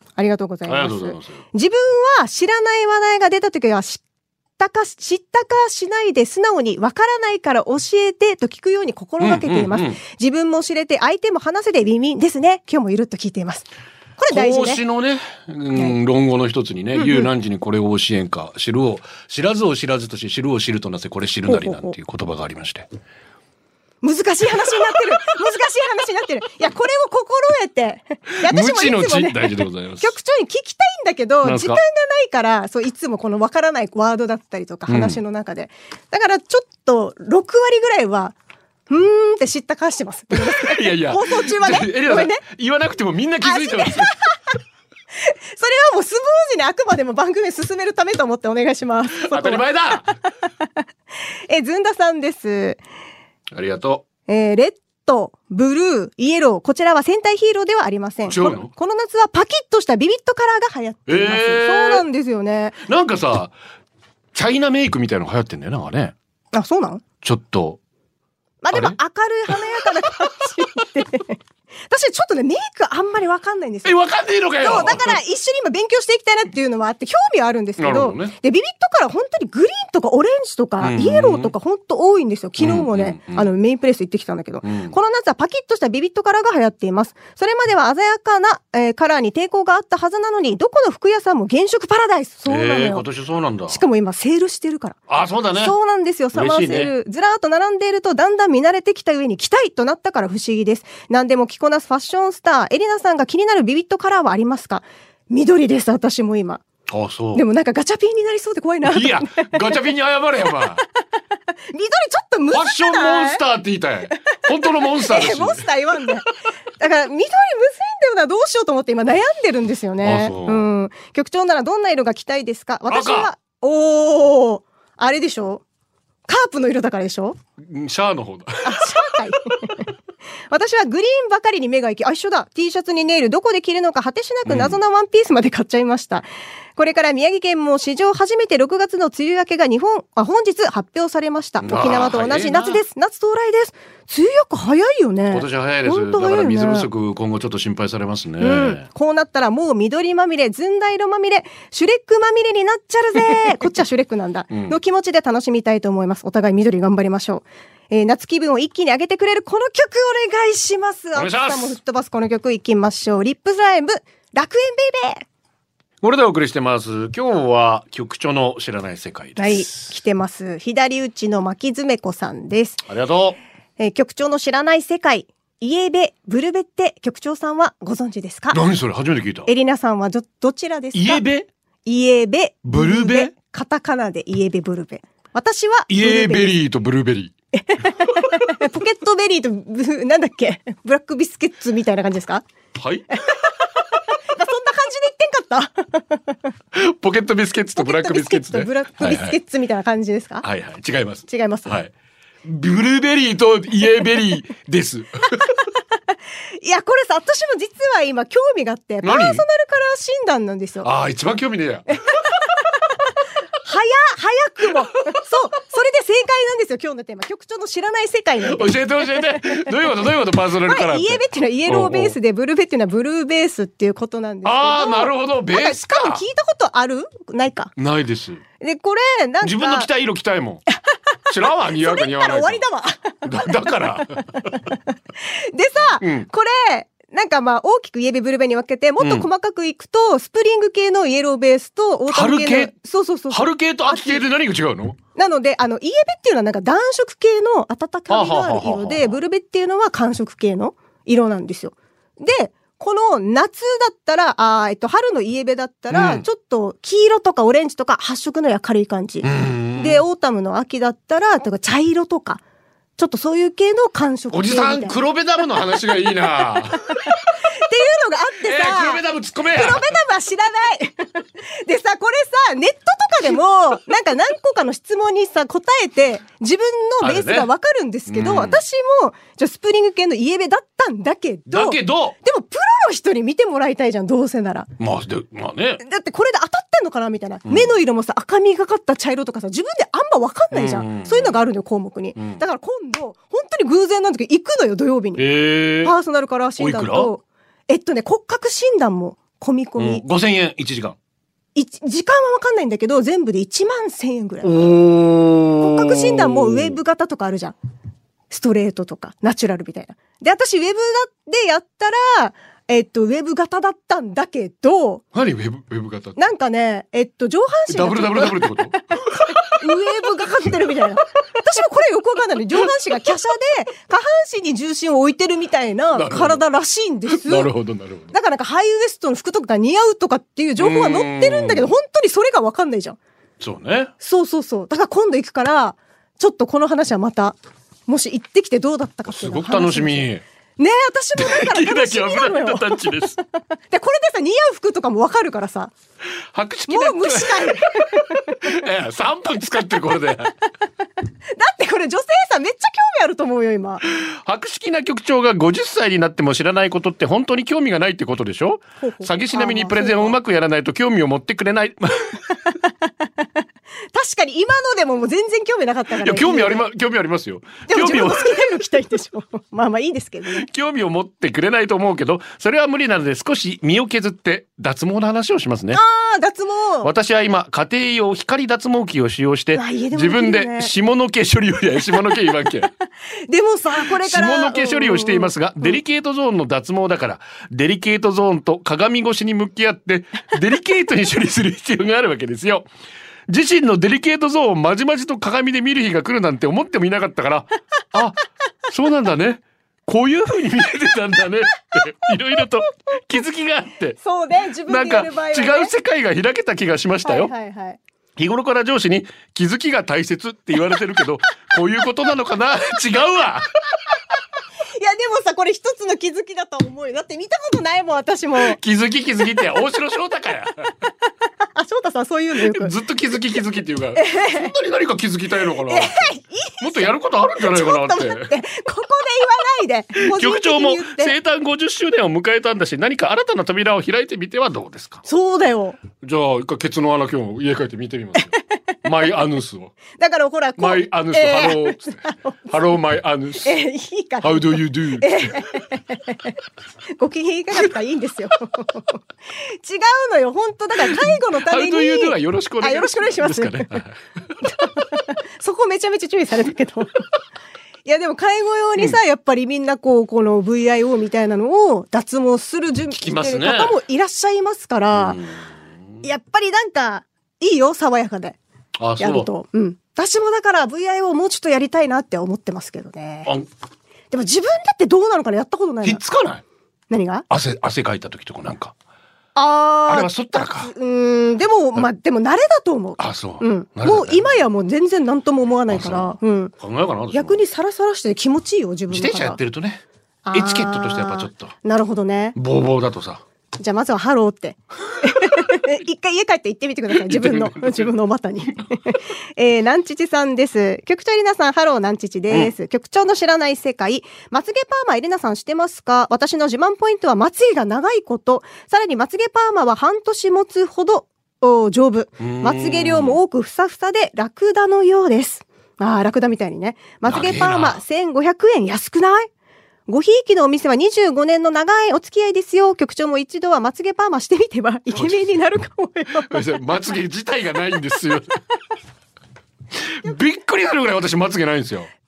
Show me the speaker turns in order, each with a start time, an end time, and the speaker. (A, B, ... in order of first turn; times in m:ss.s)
0:00.2-0:04.0 A
0:00.7-0:01.4 B
0:04.6-0:13.7 A
0:09.2-0:10.0 B
0:14.2-0:14.8 A
0:14.3-0:22.9 B
0:16.9-0:17.3 A
0:21.5-0:21.9 A
0:24.0-0:38.4 A
0:28.3-0:30.2 B
0:31.4-0:31.8 B
0:34.9-0:35.2 B
0:38.9-0:42.4 A
0:40.3-0:44.1 B
0:43.4-0:44.4 A
0:45.2-0:50.0 A
0:49.2-0:50.2 B
0:51.5-0:52.8 A
0:53.5-0:54.1 B
0:54.3-1:02.8 A
0:58.3-0:58.7 B
1:01.1-1:02.0 B
1:02.8-1:03.6 B
1:04.3-1:06.2 B
1:06.5-1:07.0 A
1:07.2-1:07.8 B
1:08.6-1:14.0 A
1:08.7-1:09.0 B
1:13.8-1:15.2 B
1:14.6-1:33.1 A
1:17.8-1:18.3 B
1:20.8-1:21.5 B
1:22.6-1:23.5 B
1:24.6-1:24.9 B
1:32.4-1:33.8 B
1:33.7-1:35.0 A
1:35.1-1:35.8 B
1:35.5-1:46.6 A
1:36.3-1:36.9 B
1:46.9-1:47.4 B
1:47.3-1:49.7 A
1:48.8-1:50.8 B
1:51.7-1:53.4 A
1:52.5-1:55.7 B
1:54.8-1:56.3 A
1:56.8-2:05.6 A
2:00.0-2:00.7 B
2:02.9-2:03.3 B
2:06.3-2:07.4 A
2:07.6-2:09.1 B
2:08.6-2:09.8 A
2:10.5-2:26.9 A
2:14.4-2:14.8 B
2:21.6-2:22.8 B
2:25.3-2:28.9 B
2:28.4-2:45.2 A
2:34.5-2:34.8 B
2:41.2-2:41.8 B
2:46.0-2:49.8 B
2:49.4-2:52.8 A
2:52.9-2:53.4 B
2:53.8-2:58.6 A
2:58.5-2:59.5 B
2:59.4-3:01.2 A
3:00.9-3:01.5 B
3:01.8-3:06.6 A
3:02.6-3:03.3 B
3:05.9-3:07.3 B
3:07.5-3:12.4 A
3:08.1-3:08.5 B
3:12.8-3:13.4 B
3:13.1-3:13.5 A
3:14.3-3:16.4 A
3:16.7-3:19.4 B
3:17.8-3:20.4 A
3:20.4-3:21.9 B
3:21.3-3:21.8 A
3:22.4-3:25.6 B
3:26.6-3:30.9 A
3:29.0-3:29.4 B
3:30.8-3:32.4 B
3:33.6-3:39.7 A
3:38.4-3:42.2 B
3:40.6-3:47.7 A
3:44.4-3:46.2 B
3:47.8-3:48.4 B
3:48.6-3:49.9 A
3:49.4-3:50.6 B
3:51.3-3:52.6 B
3:51.7-3:53.5 A
3:53.2-3:54.6 B
3:55.3-4:04.2 A
3:56.0-3:56.3 B
3:59.0-3:59.3 B
4:02.1-4:02.7 B
4:03.3-4:05.0 B
4:05.2-4:22.4 A
4:08.1-4:09.2 B
4:15.9-4:16.3 B
4:19.2-4:20.0 B
4:23.0-4:25.0 A
4:24.3-4:27.3 B
4:27.5-4:44.7 A
4:28.4-4:29.9 B
4:37.0-4:37.5 B
4:38.1-4:38.6 B
4:41.5-4:42.2 B
4:44.8-4:45.8 B
4:45.8-5:00.0 A
4:47.5-4:47.7 B
4:50.5-4:51.4 B
4:52.2-4:52.4 B
4:55.2-4:55.9 B
4:56.6-4:57.1 B
4:59.8-5:01.0 B
5:01.6-5:04.7 A
5:04.4-5:06.8 B
5:05.6-5:07.6 A
5:08.3-5:15.0 A
5:15.1-5:16.2 B
5:16.2-5:27.5 A
5:17.7-5:19.7 B
5:25.9-5:26.4 B
5:27.1-5:28.1 B
5:28.1-5:33.0 A
5:30.6-5:31.7 B
5:33.4-5:33.9 B
5:34.0-5:40.1 A
5:39.1-5:40.2 B
5:40.6-5:43.0 A
5:41.2-5:43.2 B
5:43.7-5:45.7 A
5:46.3-5:50.3 B
5:46.7-5:48.5 A
5:51.3-5:53.8 A
5:53.9-6:02.4 B
5:58.8-6:00.2 A
6:03.9-6:06.6 A
6:06.0-6:08.5 B
6:07.7-6:10.5 A
6:10.3-6:15.8 B
6:15.7-6:16.9 A
6:16.8-6:22.7 B
6:19.6-6:20.7 A
6:23.3-6:25.8 A
6:23.8-6:32.7 B
6:33.3-6:44.0 B
6:44.0-6:45.7 A
6:44.7-6:47.3 B
6:47.0-6:47.8 A
6:48.2-6:53.5 B
6:54.7-6:58.6 A
6:58.4-7:00.7 B
7:01.6-7:02.7 A
7:02.4-7:08.3 B
7:04.0-7:04.5 A
7:05.7-7:11.2 A
7:10.0-7:15.0 B
7:15.1-7:15.8 A
7:16.0-7:19.8 B
7:20.0-7:22.6 A
7:20.6-7:23.6 B
7:23.4-7:26.3 A
7:24.2-7:25.6 B
7:27.0-7:33.8 A
7:30.8-7:34.3 B
7:34.4-7:37.0 A
7:37.8-7:45.2 A
7:42.9-7:43.8 B
7:44.9-7:45.6 B
7:46.0-7:48.4 A
7:48.8-7:49.3 B
7:49.0-7:53.3 A
7:54.1-7:56.0 A
7:55.8-7:56.4 B
7:56.9-7:57.3 A
7:57.3-7:58.7 B
7:59.3-8:06.5 A
7:59.9-8:00.7 B
8:03.0-8:04.3 B
8:05.7-8:07.4 B
8:07.1-8:09.4 A
8:08.9-8:11.5 B
8:10.2-8:12.4 A
8:12.3-8:13.2 B
8:13.6-8:39.3 A
8:15.1-8:15.6 B
8:16.9-8:17.9 B
8:32.2-8:33.2 B
8:37.0-8:37.8 B
8:39.9-8:46.5 A
8:44.9-8:45.2 B
8:46.2-8:48.4 B
8:49.8-8:51.9 B